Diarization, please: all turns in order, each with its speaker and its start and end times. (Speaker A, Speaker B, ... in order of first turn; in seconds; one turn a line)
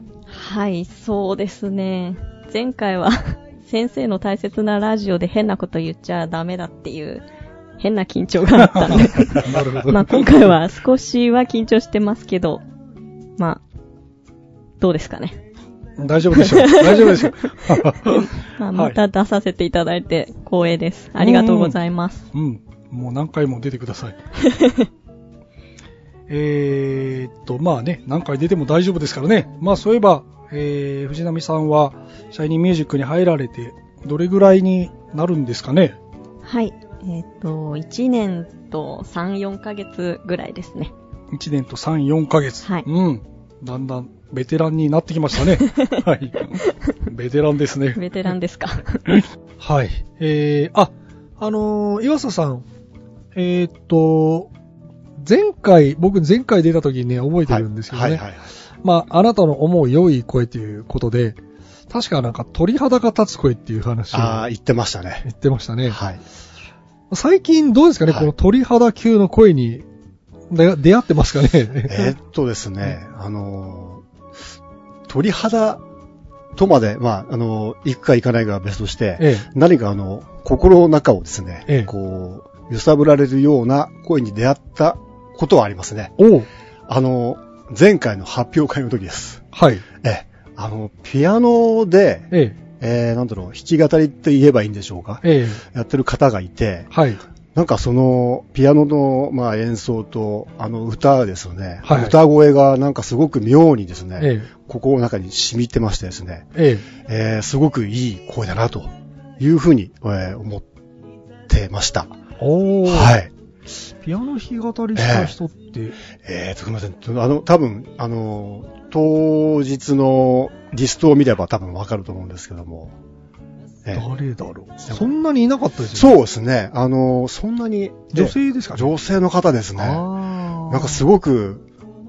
Speaker A: 0.3-7.2
Speaker A: 7.8-12.6
Speaker B: 8.7-10.5
Speaker A: 13.4-13.6
Speaker A: 14.8-15.4
Speaker B: 16.0-18.9
Speaker A: 16.4-17.3
Speaker A: 18.6-22.2
Speaker B: 21.2-21.8
Speaker B: 22.3-24.1
Speaker A: 24.4-24.9
Speaker B: 26.3-36.0
Speaker A: 36.4-40.9
Speaker B: 41.3-48.0
Speaker A: 47.9-49.1
Speaker B: 49.6-52.6
Speaker B: 53.3-54.5
Speaker B: 55.2-58.2
Speaker C: 57.5-58.4
Speaker B: 58.8-64.5
Speaker C: 64.1-65.3
Speaker B: 65.2-66.0
Speaker C: 65.9-66.2
Speaker B: 67.1-69.8
Speaker B: 70.5-72.2
Speaker C: 71.9-74.0
Speaker C: 75.1-75.8
Speaker C: 76.5-86.2
Speaker B: 79.2-79.5
Speaker B: 86.2-86.5
Speaker C: 86.9-96.9
Speaker B: 89.5-89.8
Speaker B: 92.3-92.6
Speaker B: 95.2-95.6
Speaker B: 96.9-97.2
Speaker C: 97.5-110.6
Speaker B: 101.8-102.2
Speaker B: 104.2-104.5
Speaker B: 106.5-106.8
Speaker C: 111.5-112.2
Speaker B: 112.4-113.1
Speaker C: 112.8-113.3
Speaker B: 113.7-116.0
Speaker C: 114.9-115.3
Speaker C: 116.2-122.9
Speaker B: 123.9-126.1
Speaker C: 124.8-125.1
Speaker C: 125.9-130.1
Speaker B: 128.1-128.9
Speaker B: 129.8-131.0
Speaker C: 130.7-131.7